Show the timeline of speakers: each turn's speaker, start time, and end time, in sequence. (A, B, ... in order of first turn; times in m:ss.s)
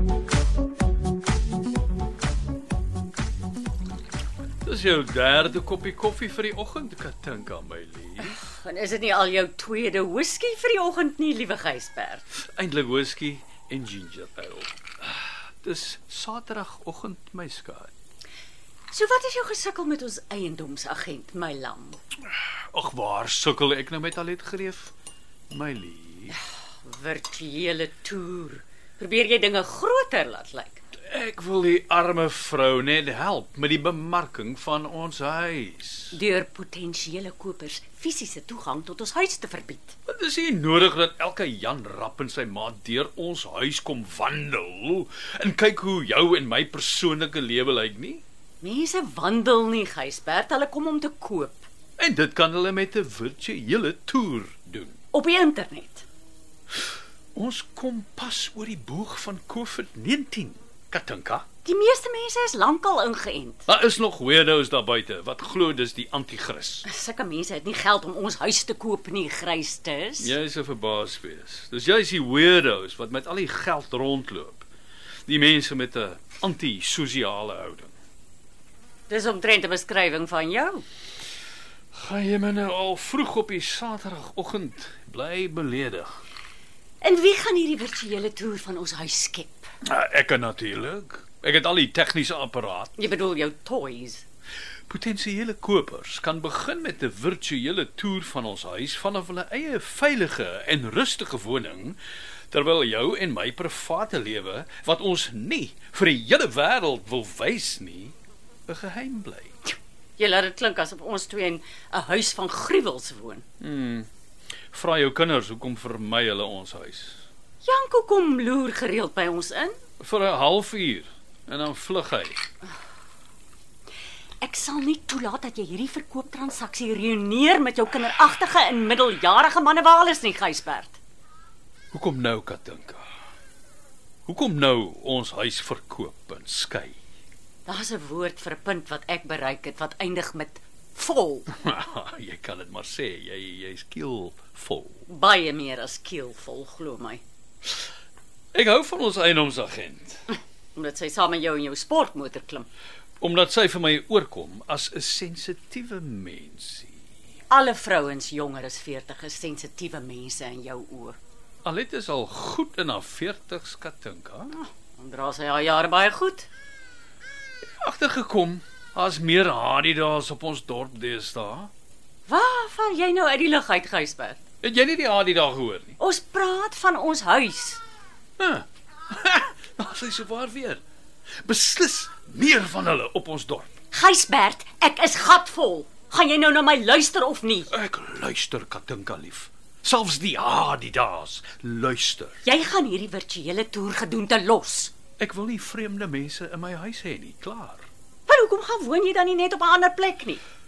0:04.6-0:08.4 A
0:08.2-0:12.2 B
0:12.4-0:17.9 A
0:18.9-0:22.0 B
0:22.3-0:24.9 A
0:25.5-0:26.3 A
0:26.3-0:30.8 B
0:31.0-0:36.2 A
0:36.1-0:39.9 B
0:40.1-0:48.2 A
0:48.6-0:51.7 B
0:52.0-0:55.0 A
0:55.1-0:56.0 B
0:57.3-1:01.4 A
1:01.6-1:03.6 B
1:03.7-1:06.8 A
1:06.8-1:10.3 B
1:10.2-1:14.7 A
1:15.3-1:17.9 A
1:19.1-1:20.8 B
1:21.9-1:26.1 A
1:27.0-1:29.7 B
1:29.8-1:32.9 A
1:33.0-1:34.2 B
1:34.9-1:42.0 A
1:42.5-1:48.1 A
1:48.7-1:49.5 A
1:50.2-1:53.4 B
1:53.6-1:54.1 A
1:54.7-1:57.2 A
1:57.6-1:59.8 B
2:00.0-2:02.4 A
2:04.4-2:11.0 B
2:11.9-2:13.0 A
2:14.2-2:17.0 A
2:17.6-2:21.5 B
2:21.5-2:25.0 A
2:25.1-2:27.2 B
2:28.5-2:30.2 A
2:30.8-2:32.7 B
2:33.2-2:37.0 A
2:37.5-2:41.2 B
2:41.6-2:44.5 A
2:44.6-2:46.5 B
2:47.8-2:51.7 A
2:52.3-2:54.4 B
2:54.6-2:56.0 A
2:56.0-2:57.8 B
2:58.4-3:00.8 A
3:01.4-3:03.7 A
3:03.9-3:07.7 B
3:07.7-3:12.4 A
3:12.4-3:14.9 B
3:15.2-3:17.8 A
3:18.3-3:20.4 B